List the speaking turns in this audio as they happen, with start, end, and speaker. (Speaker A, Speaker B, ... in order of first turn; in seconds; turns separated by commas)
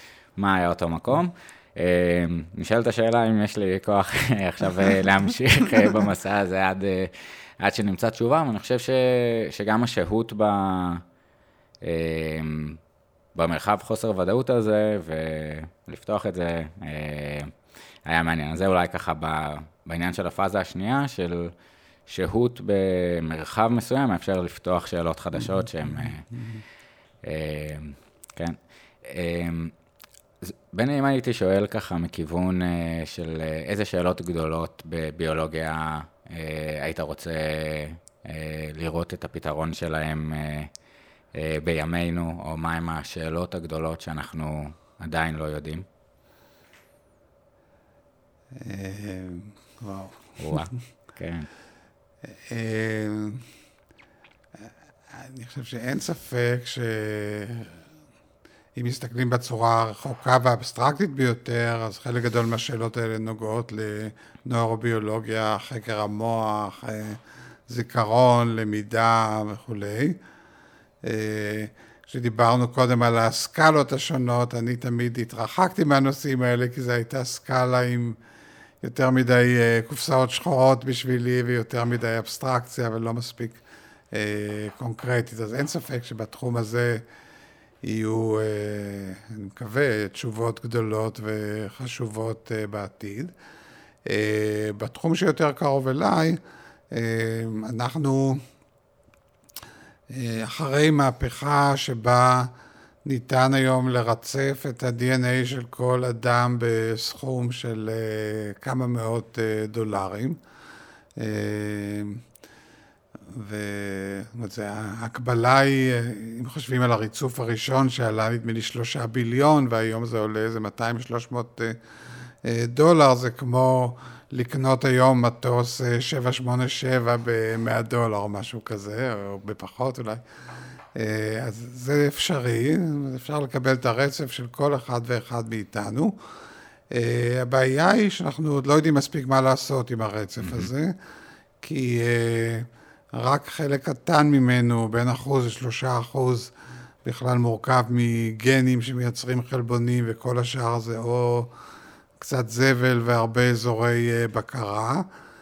Speaker A: 0.4-11.0, Speaker A: 11.8-12.8, Speaker A: 13.3-17.5, Speaker A: 18.1-21.5, Speaker A: 22.1-26.3, Speaker B: 26.0-26.6, Speaker A: 27.2-29.7, Speaker A: 30.4-40.7, Speaker A: 41.3-45.9, Speaker B: 48.5-50.7, Speaker A: 50.4-51.5, Speaker B: 52.2-53.5, Speaker B: 54.6-57.8, Speaker B: 58.7-70.2, Speaker B: 71.0-78.2, Speaker B: 78.8-87.0, Speaker B: 87.8-93.3, Speaker B: 94.0-96.4, Speaker B: 96.9-98.4, Speaker B: 100.1-102.5, Speaker B: 103.0-110.4, Speaker B: 111.2-112.2, Speaker B: 113.3-121.8, Speaker B: 122.4-130.2, Speaker B: 130.9-136.2, Speaker B: 136.9-140.9, Speaker A: 140.4-140.7, Speaker B: 141.6-146.5, Speaker B: 147.0-151.5, Speaker B: 152.2-155.1